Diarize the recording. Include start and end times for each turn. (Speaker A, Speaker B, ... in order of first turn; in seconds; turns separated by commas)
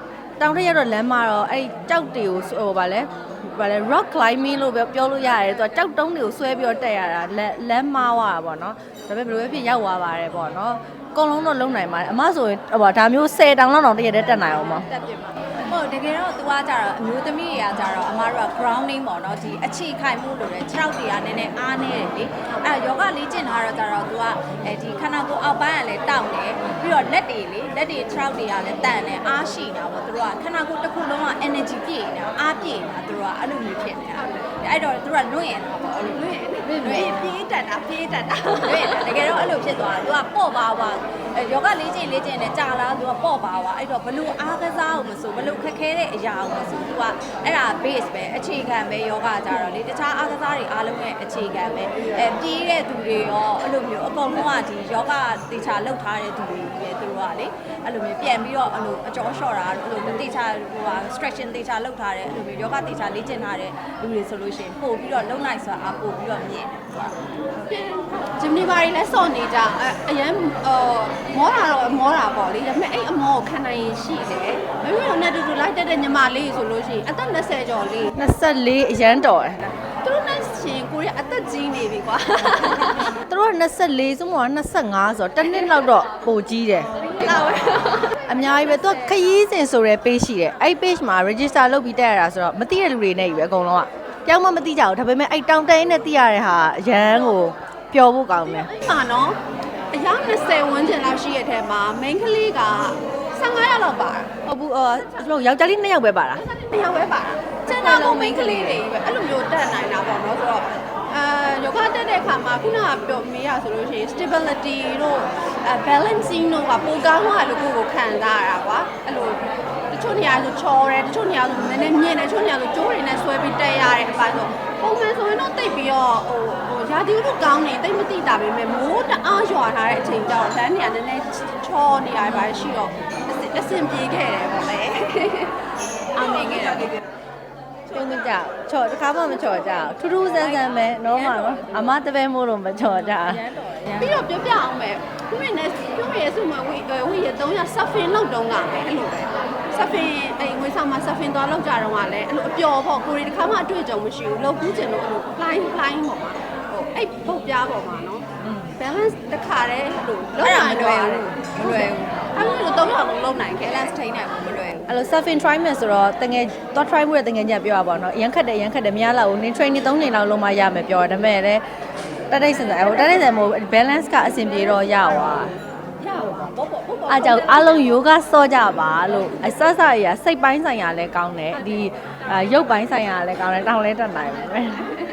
Speaker A: 0.4-14.9, Speaker B: 15.0-37.3, Speaker C: 36.1-39.2, Speaker B: 38.6-67.1, Speaker C: 67.7-78.2, Speaker A: 78.1-79.6, Speaker C: 80.0-83.1, Speaker A: 83.3-87.3, Speaker C: 87.1-88.2, Speaker A: 88.2-98.7, Speaker C: 98.6-99.4, Speaker C: 99.9-104.4, Speaker A: 104.5-106.4, Speaker C: 106.3-135.6, Speaker A: 107.7-108.8, Speaker B: 136.1-136.9, Speaker A: 137.9-143.4, Speaker B: 140.8-141.9, Speaker B: 143.2-144.3, Speaker C: 144.0-163.9, Speaker A: 158.4-158.7, Speaker B: 160.4-162.7, Speaker B: 163.6-164.9, Speaker A: 164.9-171.6, Speaker A: 172.3-175.5, Speaker C: 176.0-178.0, Speaker A: 177.1-184.9